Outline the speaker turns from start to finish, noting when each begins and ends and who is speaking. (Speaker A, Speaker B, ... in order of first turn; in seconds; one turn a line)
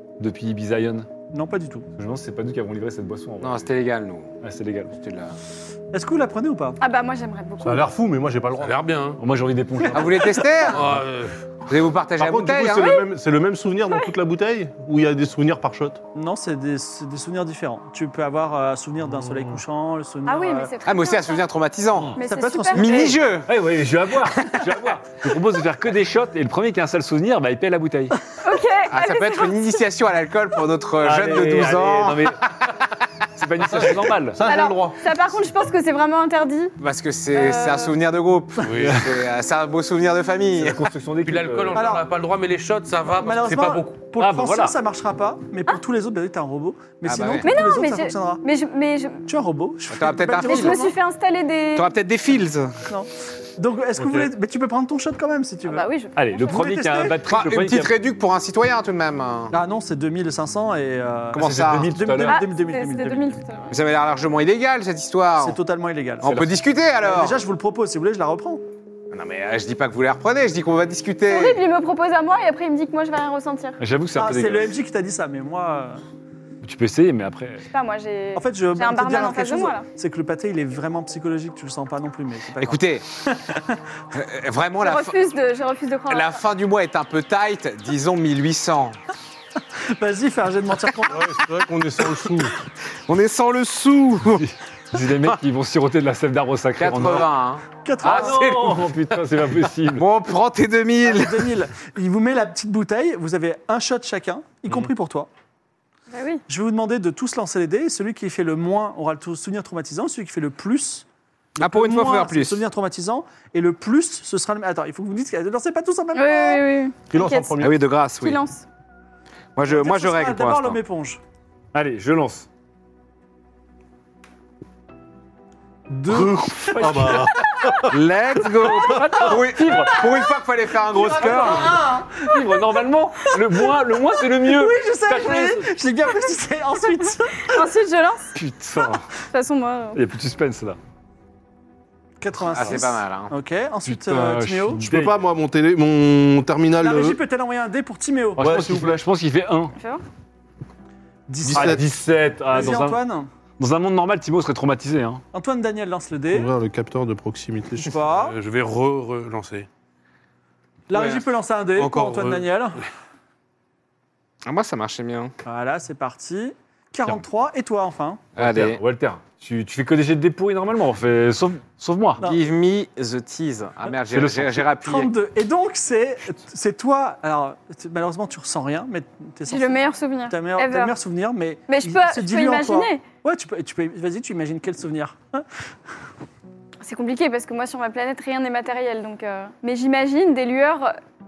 Speaker A: 0.2-1.1
Speaker B: 1.3-1.9
Speaker A: 2.0-3.7
Speaker C: 3.4-4.3
Speaker A: 4.4-4.9
Speaker C: 4.9-5.4
Speaker B: 5.9-6.8
Speaker D: 6.8-7.8
Speaker E: 7.6-8.8
Speaker F: 8.6-9.2
Speaker A: 9.2-10.4
Speaker C: 9.9-11.0
Speaker F: 10.7-11.4
Speaker C: 11.7-13.0
Speaker E: 12.2-16.0
Speaker B: 16.1-20.7
Speaker E: 19.2-19.6
Speaker D: 20.3-21.5
Speaker C: 20.9-22.2
Speaker D: 22.2-23.2
Speaker B: 22.2-23.2
Speaker C: 22.7-23.5
Speaker A: 23.5-28.2
Speaker D: 28.3-29.6
Speaker C: 28.9-32.4
Speaker A: 31.0-32.4
Speaker A: 33.4-34.4
Speaker E: 34.3-35.0
Speaker D: 34.4-36.8
Speaker C: 36.8-40.9
Speaker D: 37.3-38.0
Speaker F: 38.6-39.0
Speaker A: 38.8-39.2
Speaker A: 40.5-41.9
Speaker F: 41.2-44.0
Speaker B: 41.8-42.0
Speaker B: 43.2-48.4
Speaker A: 44.2-44.8
Speaker C: 47.0-47.5
Speaker D: 47.4-49.2
Speaker B: 49.3-51.0
Speaker C: 49.9-50.9
Speaker D: 50.4-51.9
Speaker C: 51.8-52.8
Speaker B: 52.9-55.9
Speaker E: 54.0-54.3
Speaker D: 55.7-56.5
Speaker A: 56.2-58.0
Speaker B: 56.4-57.2
Speaker C: 57.3-59.5
Speaker B: 59.5-63.4
Speaker C: 61.3-61.9
Speaker A: 61.4-62.4
Speaker D: 62.2-63.7
Speaker C: 63.7-65.6
Speaker B: 65.4-66.3
Speaker C: 66.2-67.4
Speaker A: 66.2-66.6
Speaker B: 67.0-68.6
Speaker C: 69.1-71.6
Speaker D: 71.3-73.8
Speaker A: 73.8-74.7
Speaker B: 74.2-76.0
Speaker A: 76.6-77.7
Speaker D: 77.7-79.9
Speaker B: 78.3-83.8
Speaker C: 82.6-83.0
Speaker C: 84.1-85.2
Speaker D: 84.8-86.4
Speaker C: 86.1-89.0
Speaker B: 89.9-91.3
Speaker E: 91.1-92.5
Speaker C: 93.1-94.5
Speaker A: 94.4-97.3
Speaker C: 96.8-98.9
Speaker B: 97.8-98.5
Speaker A: 98.0-100.1
Speaker C: 99.9-101.5
Speaker B: 101.0-105.3
Speaker D: 106.1-106.4
Speaker B: 106.5-111.0
Speaker B: 111.6-116.7
Speaker C: 111.6-112.6
Speaker D: 116.1-118.6
Speaker E: 117.1-117.8
Speaker C: 117.6-118.4
Speaker C: 119.6-120.8
Speaker B: 119.6-121.2
Speaker A: 121.7-122.5
Speaker B: 125.9-127.8
Speaker E: 126.1-128.0
Speaker A: 126.7-127.4
Speaker C: 127.9-131.8
Speaker A: 128.6-130.1
Speaker B: 130.9-132.4
Speaker A: 131.4-135.7
Speaker B: 133.2-137.7
Speaker D: 137.4-138.4
Speaker A: 138.4-139.1
Speaker D: 139.2-140.0
Speaker A: 139.9-140.8
Speaker B: 142.2-144.8
Speaker C: 142.5-143.3
Speaker A: 143.9-145.2
Speaker E: 144.8-147.2
Speaker B: 146.8-148.4
Speaker A: 148.4-149.7
Speaker E: 148.4-149.0
Speaker D: 149.8-150.0
Speaker B: 151.3-151.8
Speaker E: 151.5-151.8
Speaker A: 151.5-153.0
Speaker B: 152.5-153.3
Speaker A: 153.6-155.2
Speaker B: 155.3-156.5
Speaker E: 156.3-157.9
Speaker B: 157.8-158.4
Speaker F: 158.1-159.7
Speaker B: 160.9-162.8
Speaker C: 160.9-161.3
Speaker F: 161.8-162.4
Speaker C: 164.4-165.3
Speaker B: 165.4-168.2
Speaker A: 168.4-172.2
Speaker C: 168.4-168.8
Speaker C: 172.2-175.1
Speaker A: 174.1-174.7
Speaker B: 174.8-185.5
Speaker D: 179.5-180.9
Speaker D: 181.7-183.0
Speaker D: 186.8-190.9